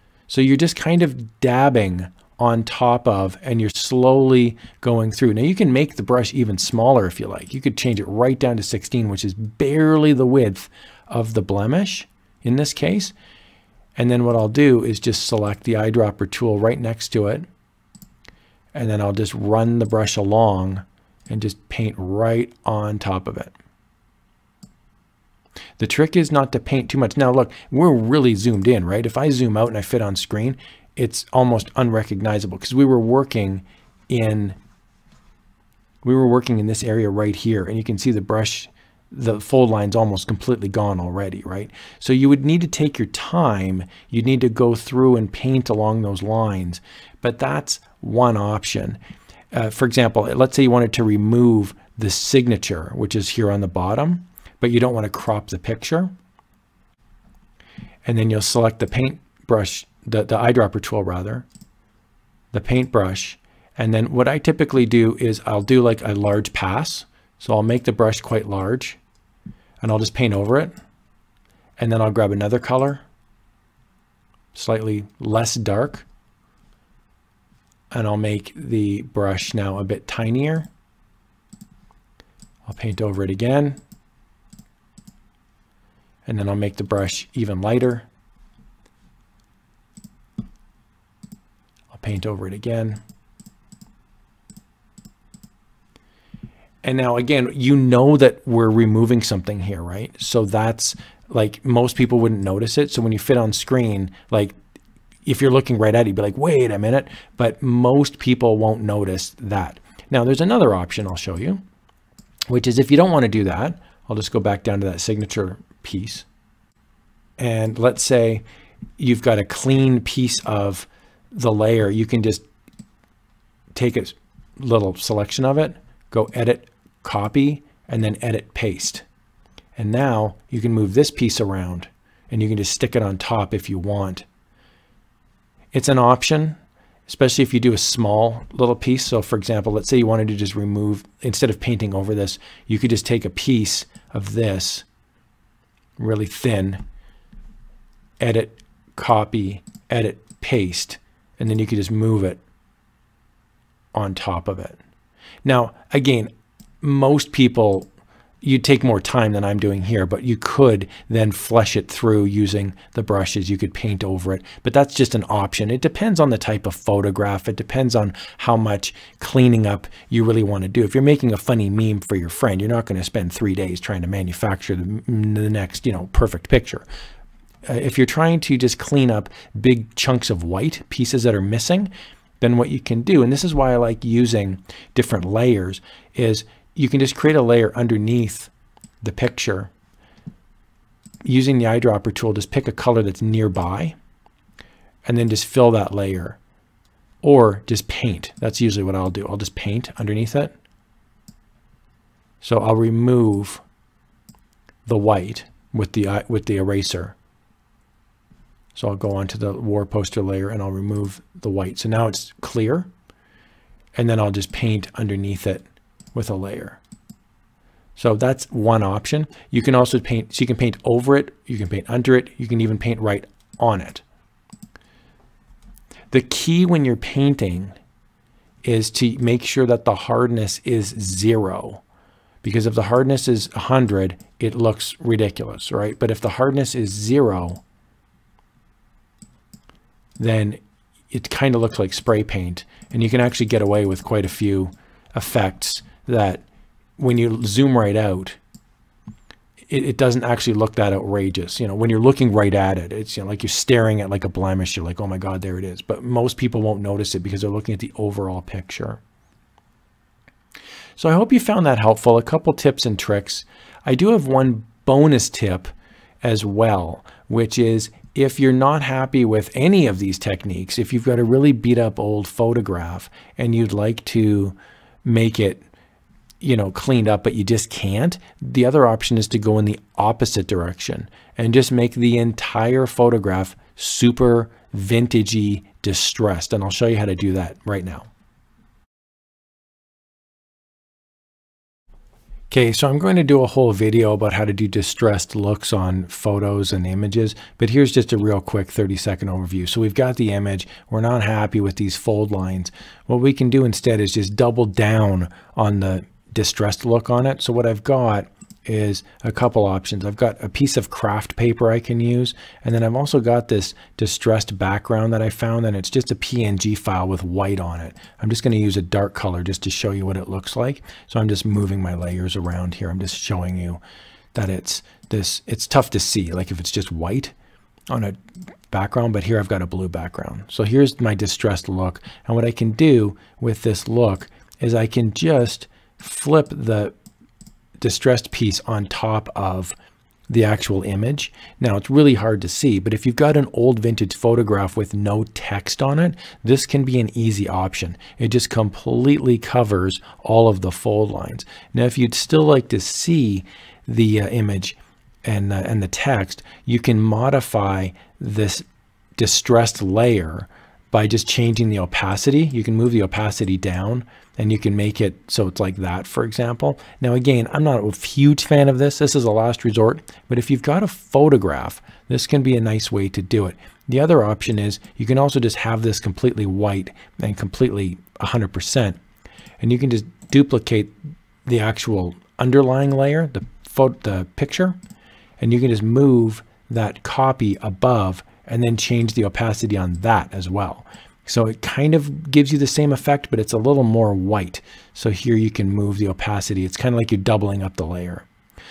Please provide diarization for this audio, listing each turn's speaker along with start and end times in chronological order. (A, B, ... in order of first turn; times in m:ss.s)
0:00.3-0:13.1 A
0:14.0-0:17.4 A
0:18.7-0:23.5 A
0:25.8-0:34.6 A
0:36.0-0:49.0 A
0:49.5-0:56.1 A
0:58.0-1:01.4 A
1:02.5-1:09.0 A
1:09.8-1:10.7 A
1:11.8-1:13.0 A
1:14.5-1:16.1 A
1:17.9-1:20.7 A
1:22.6-1:23.8 A
1:26.2-1:28.0 A
1:31.9-1:33.0 A
1:36.8-1:44.5 A
1:45.2-1:51.6 A
1:52.5-1:56.2 A
1:57.4-1:58.4 A
1:59.0-2:02.4 A
2:03.7-2:09.0 A
2:09.8-2:14.2 A
2:15.7-2:24.8 A
2:26.0-2:26.8 A
2:28.2-2:32.4 A
2:33.9-2:34.8 A
2:35.4-2:36.3 A
2:36.8-2:37.9 A
2:38.4-2:56.8 A
2:57.7-3:08.5 A
3:09.0-3:09.7 A
3:11.2-3:13.9 A
3:15.0-3:16.4 A
3:17.2-3:20.5 A
3:22.4-3:23.6 A
3:24.8-3:27.1 A
3:28.7-3:32.9 A
3:33.9-3:36.8 A
3:38.0-3:44.0 A
3:46.1-3:47.7 A
3:48.6-3:51.8 A
3:52.4-3:57.6 A
4:00.2-4:00.6 A
4:01.1-4:06.4 A
4:07.0-4:08.4 A
4:09.7-4:19.0 A
4:21.0-4:35.6 A
4:36.4-4:48.1 A
4:52.5-5:23.8 A
5:24.3-5:27.3 A
5:27.9-5:28.2 A
5:28.7-5:36.9 A
5:37.8-5:39.8 A
5:40.3-5:58.6 A
5:59.2-6:19.0 A
6:19.6-6:20.9 A
6:21.4-6:24.8 A
6:25.4-6:38.3 A